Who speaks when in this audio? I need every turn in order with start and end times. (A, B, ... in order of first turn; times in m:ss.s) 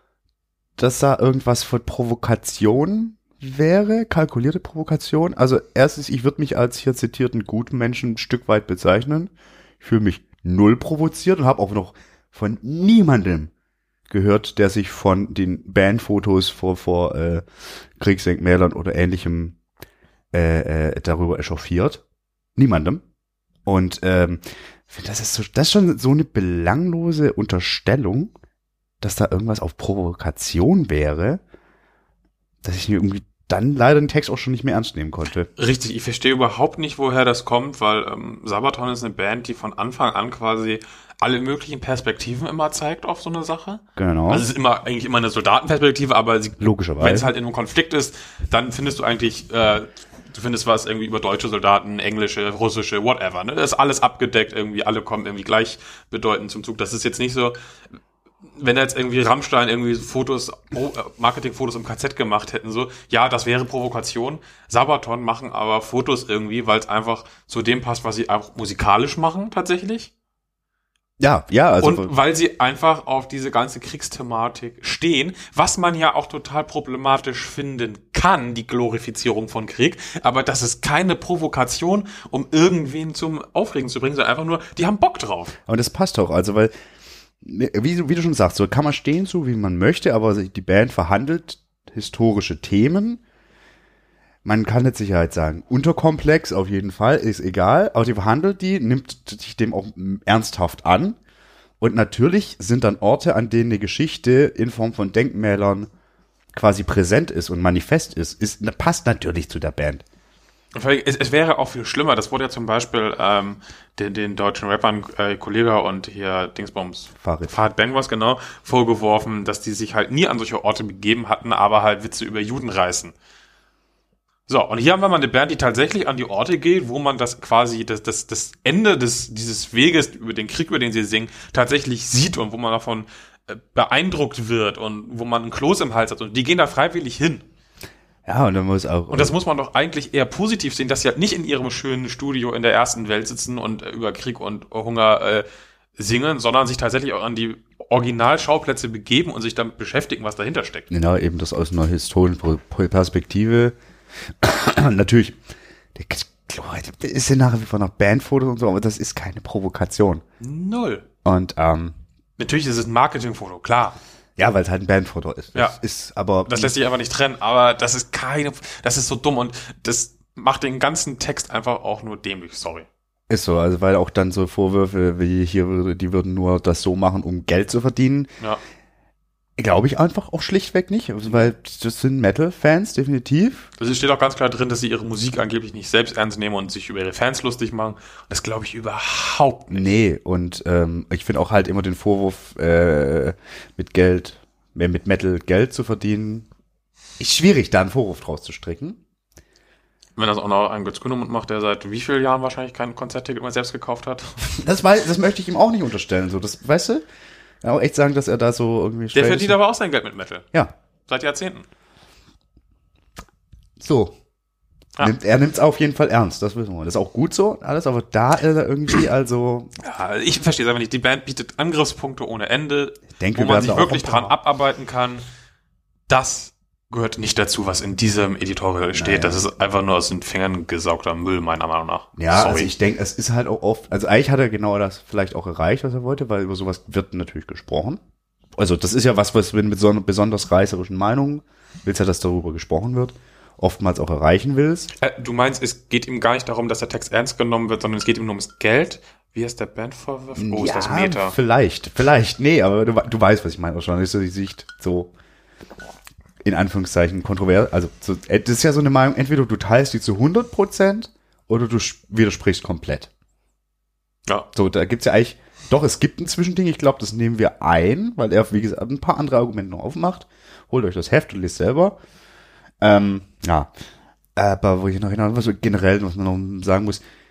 0:00.8-0:13.5 A
0:14.1-0:17.5 A
0:18.0-0:19.6 A
0:20.3-0:22.0 A
0:22.6-0:23.0 A
0:23.7-0:28.3 A
0:29.0-0:31.4 A
0:32.6-0:35.5 A
0:35.6-0:57.6 B
0:44.0-0:44.4 A
0:46.6-0:47.3 A
0:58.6-1:10.1 B
1:11.2-1:12.1 A
1:11.8-1:25.6 B
1:25.7-1:26.7 A
1:27.4-1:33.2 A
1:34.4-1:41.2 A
1:41.8-1:45.9 A
1:46.5-1:50.0 A
1:50.8-2:03.1 B
1:57.2-1:57.6 A
2:04.5-2:17.4 B
2:18.3-2:19.3 A
2:19.1-2:25.5 B
2:26.0-2:30.9 B
2:30.9-2:35.4 A
2:36.0-2:40.2 A
2:40.4-2:41.0 B
2:41.2-2:42.0 A
2:42.4-2:44.0 B
2:44.4-2:46.7 A
2:46.5-2:52.9 B
2:53.3-2:58.3 A
2:59.6-3:03.7 A
3:03.8-3:09.9 B
3:09.7-3:16.5 A
3:17.2-3:19.0 A
3:20.2-3:24.5 B
3:24.4-3:27.0 A
3:27.6-3:29.6 A
3:29.1-3:30.5 B
3:31.1-3:31.7 B
3:33.8-3:34.2 A
3:35.0-3:39.7 A
3:39.8-3:45.2 B
3:43.2-3:44.4 A
3:46.1-3:52.7 B
3:48.9-3:49.5 A
3:52.2-3:58.0 A
3:58.6-4:04.9 A
4:05.0-4:11.4 B
4:10.4-4:15.1 A
4:16.4-4:23.1 A
4:24.5-4:32.0 A
4:32.8-4:33.7 A
4:34.4-4:37.0 A